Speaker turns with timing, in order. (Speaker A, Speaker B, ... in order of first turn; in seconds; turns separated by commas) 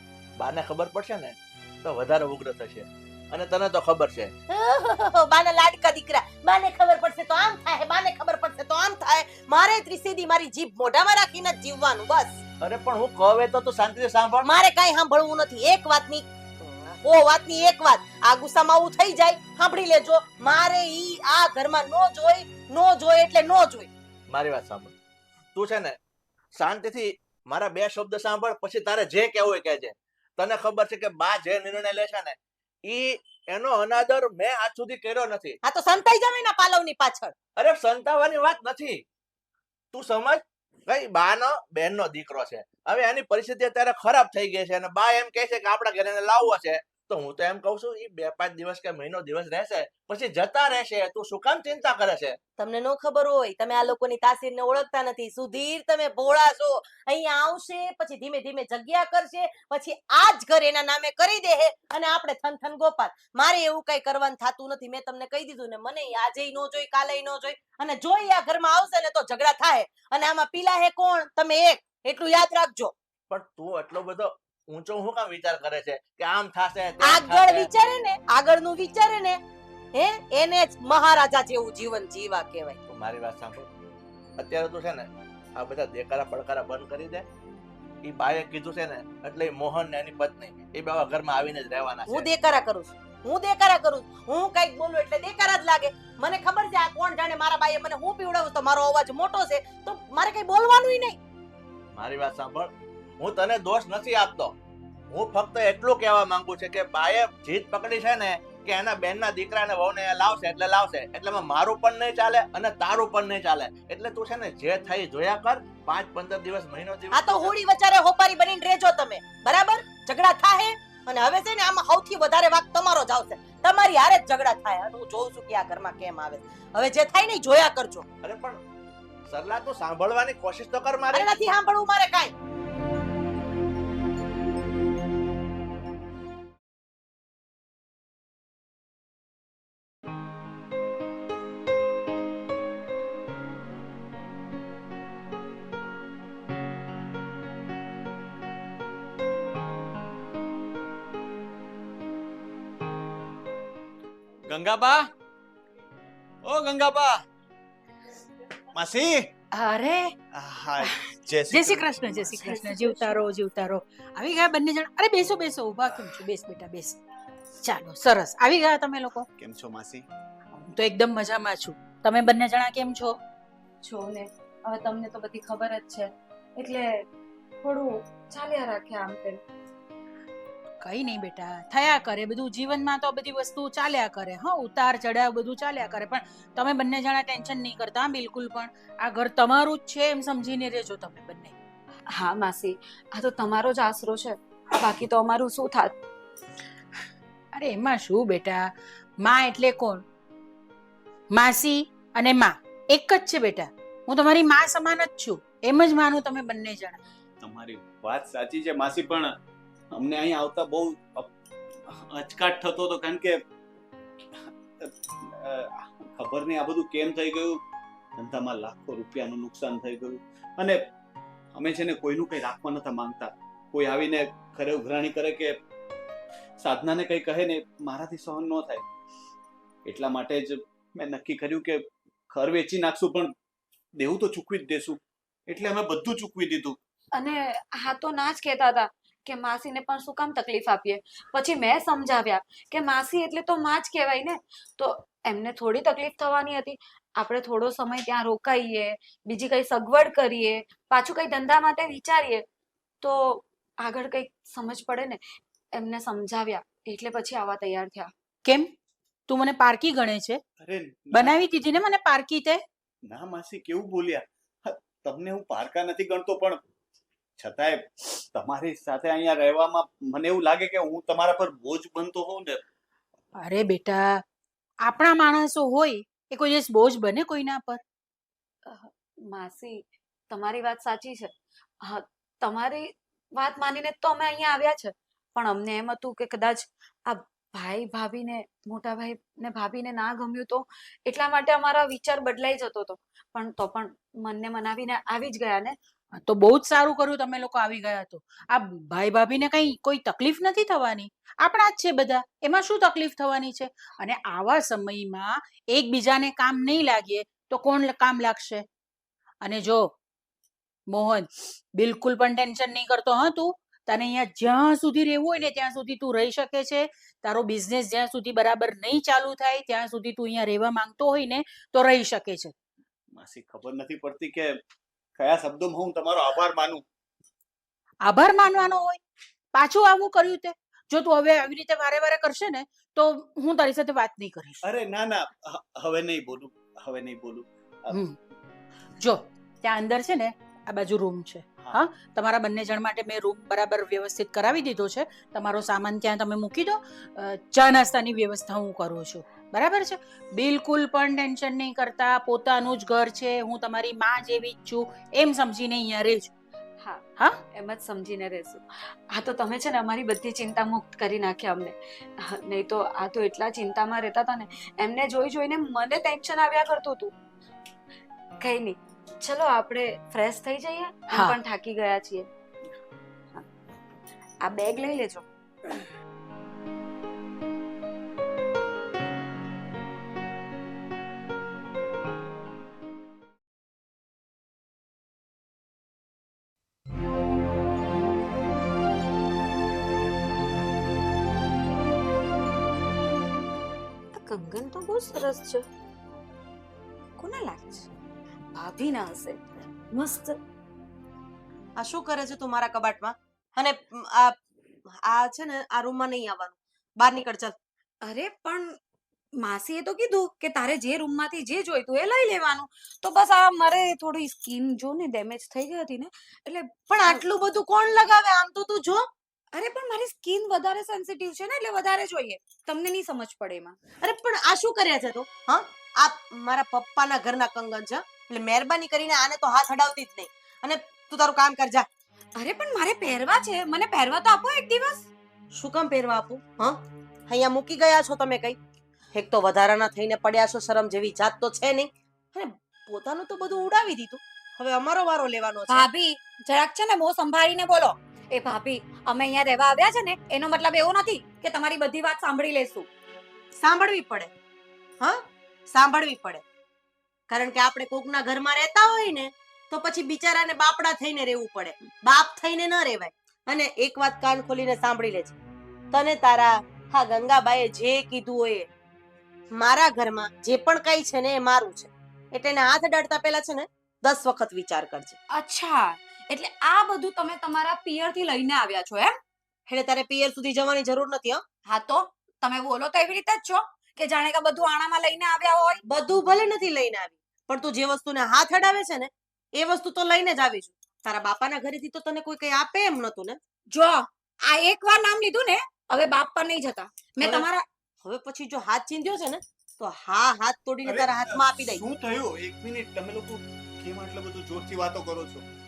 Speaker A: 0.4-4.3, Speaker B: 4.5-12.4, Speaker A: 12.6-14.5, Speaker B: 14.4-23.9, Speaker A: 24.3-24.9, Speaker A: 25.6-26.0, Speaker A: 26.6-35.6, Speaker B: 35.6-37.3, Speaker A: 37.6-39.0, Speaker A: 39.9-52.4, Speaker B: 52.6-72.9, Speaker A: 73.3-77.7, Speaker B: 77.0-79.4, Speaker B: 79.9-82.8, Speaker A: 82.9-83.7, Speaker A: 84.4-87.3, Speaker A: 88.0-92.3, Speaker B: 92.1-101.2, Speaker A: 101.9-104.5, Speaker A: 105.1-117.5, Speaker B: 117.1-128.1, Speaker A: 128.2-128.6, Speaker A: 129.3-131.3, Speaker B: 131.1-132.3, Speaker C: 154.5-155.1, Speaker C: 156.4-157.2, Speaker C: 158.7-159.3, Speaker D: 159.5-160.1, Speaker C: 160.3-162.8, Speaker D: 161.5-167.0, Speaker D: 167.6-169.3, Speaker C: 169.4-170.1, Speaker D: 170.6-173.2, Speaker E: 173.8-176.9, Speaker E: 177.6-179.4, Speaker D: 180.8-191.6, Speaker E: 192.1-195.9, Speaker D: 197.5-200.0, Speaker D: 201.3-207.0, Speaker C: 207.4-209.3, Speaker C: 209.9-211.3, Speaker C: 211.9-213.4, Speaker C: 214.3-217.6, Speaker C: 218.2-220.8, Speaker C: 221.5-225.6, Speaker C: 226.6-228.9, Speaker C: 229.8-233.3, Speaker C: 234.0-236.8, Speaker E: 237.1-252.4, Speaker E: 253.0-255.2, Speaker E: 255.8-258.1, Speaker D: 258.4-258.7, Speaker D: 259.3-260.4, Speaker C: 260.6-261.4, Speaker D: 261.1-262.6, Speaker C: 263.1-266.6, Speaker C: 267.4-272.6, Speaker D: 273.4-274.2, Speaker D: 274.8-277.8, Speaker E: 278.7-295.8, Speaker D: 296.1-308.6, Speaker D: 309.4-309.9, Speaker D: 310.9-322.5, Speaker C: 323.1-324.6, Speaker C: 325.2-326.9, Speaker D: 328.0-329.0, Speaker D: 329.5-334.7, Speaker C: 334.6-337.9, Speaker D: 337.9-338.2, Speaker D: 339.0-356.3, Speaker E: 356.8-367.1, Speaker E: 368.4-372.3, Speaker D: 371.1-371.4, Speaker E: 374.4-375.2, Speaker E: 394.1-395.7, Speaker E: 397.2-397.9, Speaker E: 398.5-400.4, Speaker B: 401.8-404.4, Speaker B: 404.9-407.6, Speaker E: 408.0-408.8, Speaker E: 409.4-417.2, Speaker B: 416.9-419.1, Speaker E: 419.5-423.8, Speaker B: 424.0-431.9, Speaker E: 432.4-435.1, Speaker B: 435.6-438.6, Speaker B: 439.1-445.9, Speaker E: 445.7-452.9, Speaker B: 453.6-454.3, Speaker B: 455.0-456.4, Speaker B: 457.3-465.4, Speaker B: 465.9-468.7, Speaker B: 469.6-475.2, Speaker E: 475.3-479.1, Speaker B: 479.7-481.4, Speaker E: 481.7-485.8, Speaker B: 485.9-493.4, Speaker E: 493.7-497.6, Speaker B: 497.2-497.5, Speaker B: 498.0-501.8, Speaker C: 500.9-505.4